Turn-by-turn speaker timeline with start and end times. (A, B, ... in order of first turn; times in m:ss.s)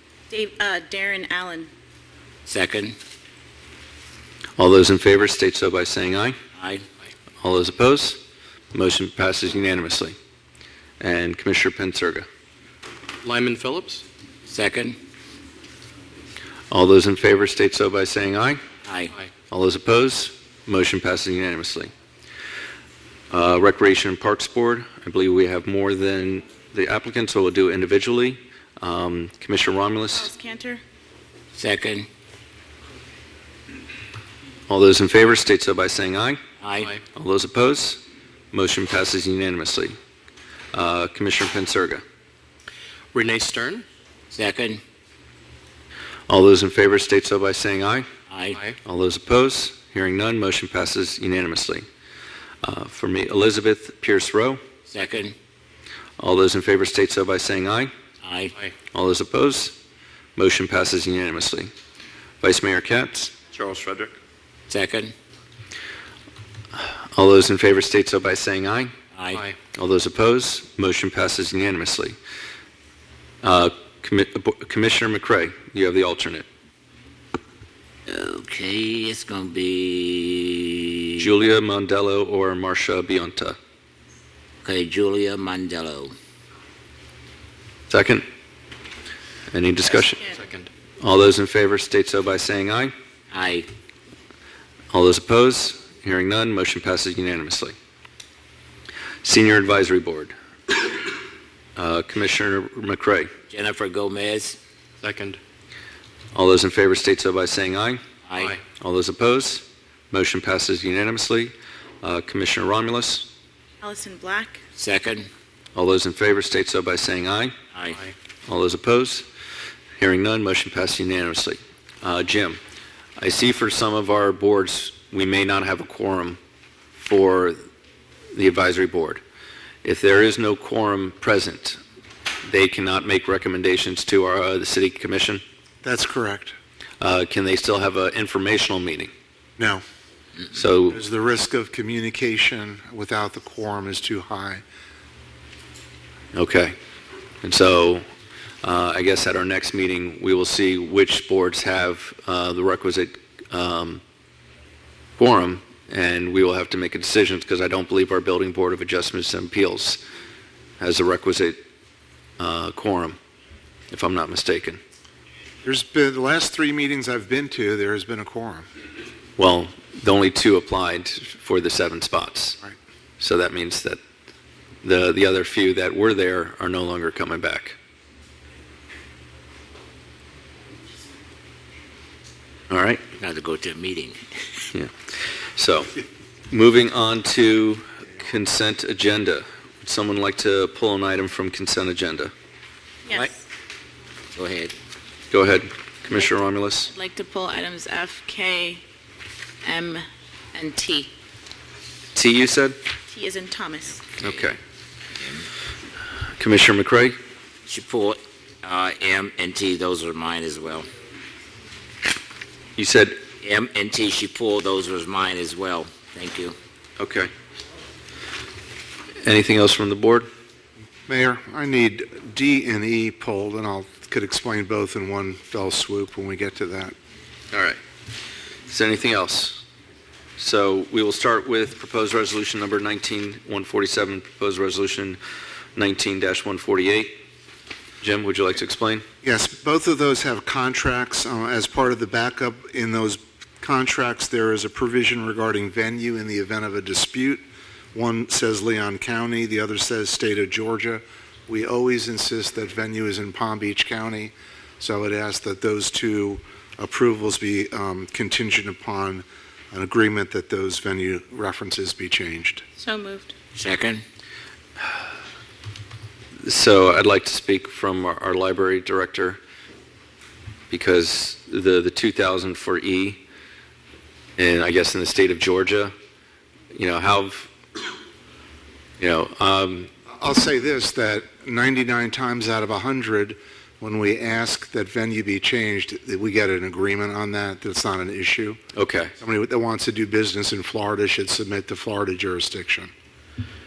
0:00.3-0:01.7 A
0:02.5-0:03.0 B
0:04.6-0:06.4 C
0:06.6-0:06.8 B
0:07.4-0:08.2 C
0:08.7-0:10.2 C
0:11.0-0:12.3 C
0:13.2-0:14.0 D
0:14.5-0:15.0 B
0:16.7-0:18.6 C
0:18.8-0:19.1 B
0:19.5-0:21.9 C
0:23.3-0:30.3 C
0:30.1-0:30.8 A
0:31.6-0:32.1 B
0:34.7-0:36.4 C
0:36.6-0:37.0 B
0:37.1-0:38.0 C
0:38.5-0:40.0 C
0:40.7-0:42.0 C
0:43.1-0:43.9 D
0:44.3-0:44.8 B
0:46.3-0:48.1 C
0:48.3-0:48.6 B
0:48.8-0:51.8 C
0:52.6-0:54.6 C
0:54.9-0:55.4 B
0:56.2-0:57.9 C
0:58.2-0:58.6 B
0:58.9-0:59.8 C
1:00.4-1:01.7 C
1:02.4-1:04.1 C
1:04.7-1:05.1 B
1:06.8-1:08.9 C
1:09.1-1:09.5 B
1:09.7-1:12.2 C
1:13.4-1:16.5 C
1:18.1-1:21.3 B
1:21.2-1:23.6 C
1:24.6-1:26.1 B
1:27.9-1:28.2 C
1:29.5-1:30.2 C
1:30.4-1:30.7 D
1:31.0-1:32.9 C
1:33.3-1:33.7 B
1:34.9-1:37.7 C
1:39.2-1:40.3 C
1:41.8-1:43.3 C
1:43.5-1:44.6 B
1:45.0-1:45.4 D
1:46.3-1:48.0 C
1:48.3-1:48.6 B
1:48.8-1:53.3 C
1:53.8-1:54.6 A
1:54.8-1:55.3 B
1:55.8-1:57.6 C
1:57.7-1:58.0 B
1:58.5-1:59.3 C
2:00.0-2:02.6 C
2:03.2-2:06.4 C
2:07.0-2:07.6 C
2:08.3-2:09.2 C
2:09.8-2:11.8 C
2:12.4-2:15.4 C
2:15.8-2:16.6 E
2:17.0-2:19.1 C
2:20.5-2:21.0 C
2:20.9-2:24.6 E
2:26.3-2:26.8 C
2:27.4-2:28.0 C
2:28.6-2:34.0 C
2:35.2-2:40.0 C
2:40.8-2:41.6 C
2:42.4-2:43.2 C
2:43.9-2:44.8 C
2:45.6-2:48.7 E
2:49.4-2:52.6 C
2:53.2-2:54.0 C
2:54.8-2:57.8 C
3:02.7-3:03.0 C
3:03.2-3:04.2 B
3:05.6-3:05.9 C
3:06.5-3:12.3 C
3:13.1-3:13.4 A
3:14.4-3:14.7 B
3:15.3-3:16.9 C
3:16.9-3:18.8 A
3:19.6-3:21.1 B
3:22.1-3:22.8 C
3:23.1-3:24.0 A
3:24.2-3:24.6 C
3:26.4-3:27.2 C
3:27.7-3:30.9 B
3:32.8-3:33.2 C
3:33.4-3:36.6 B
3:37.0-3:37.3 C
3:39.2-3:40.3 C
3:41.1-3:46.9 E
3:47.5-3:47.8 C
3:48.7-3:49.6 C
3:50.4-3:55.2 C
3:55.8-3:57.2 C
3:58.0-3:59.0 C
3:59.2-4:07.4 E
4:07.9-4:22.6 E
4:22.8-4:23.3 A
4:23.6-4:24.0 B
4:26.4-4:29.4 C
4:30.7-4:33.2 C
4:34.4-4:35.9 C
4:36.8-4:37.5 C
4:39.0-4:39.9 C
4:40.2-4:48.6 E
4:48.8-4:49.1 C
4:49.2-4:52.9 E